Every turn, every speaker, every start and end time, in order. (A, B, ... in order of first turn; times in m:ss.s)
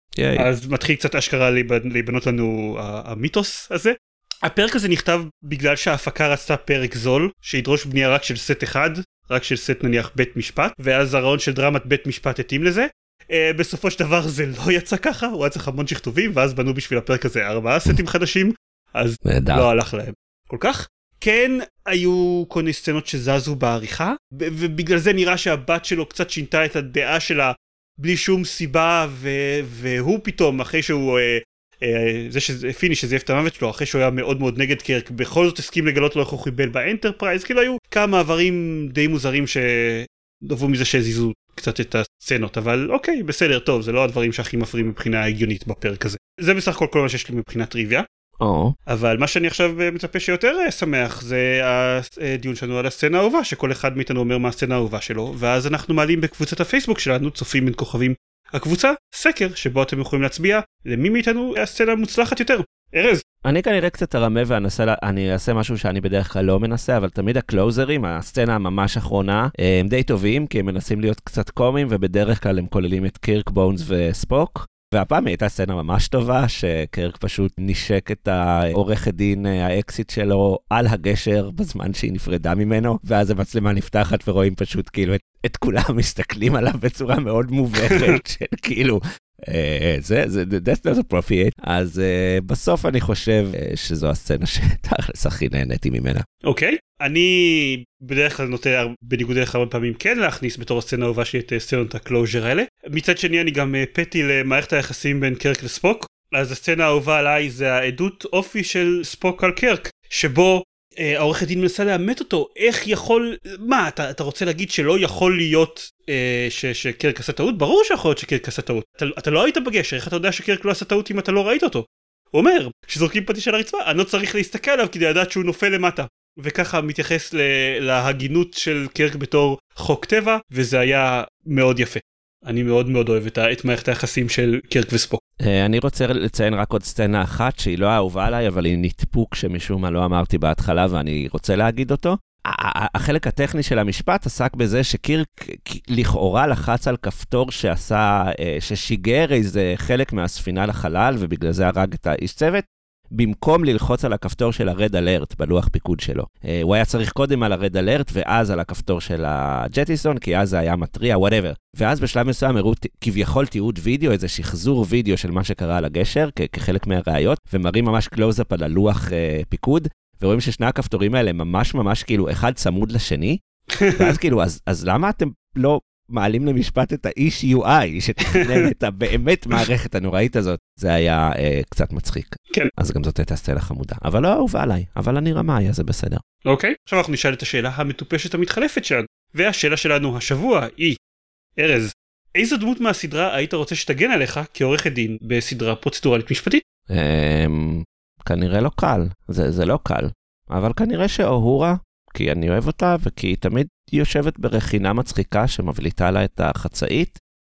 0:00.2-0:00.5 A
0:00.4-0:48.0 B
0:19.2-0:19.7 A
0:48.4-0:48.8 A
0:48.9-1:03.2 B
1:03.4-1:36.2 A
1:27.9-1:28.2 B
1:36.4-2:15.2 B
2:15.4-2:53.4 A
2:53.8-2:54.1 B
2:54.0-3:06.2 A
2:58.3-2:58.6 B
3:06.4-3:11.0 B
3:11.6-3:16.6 B
3:16.9-3:27.2 A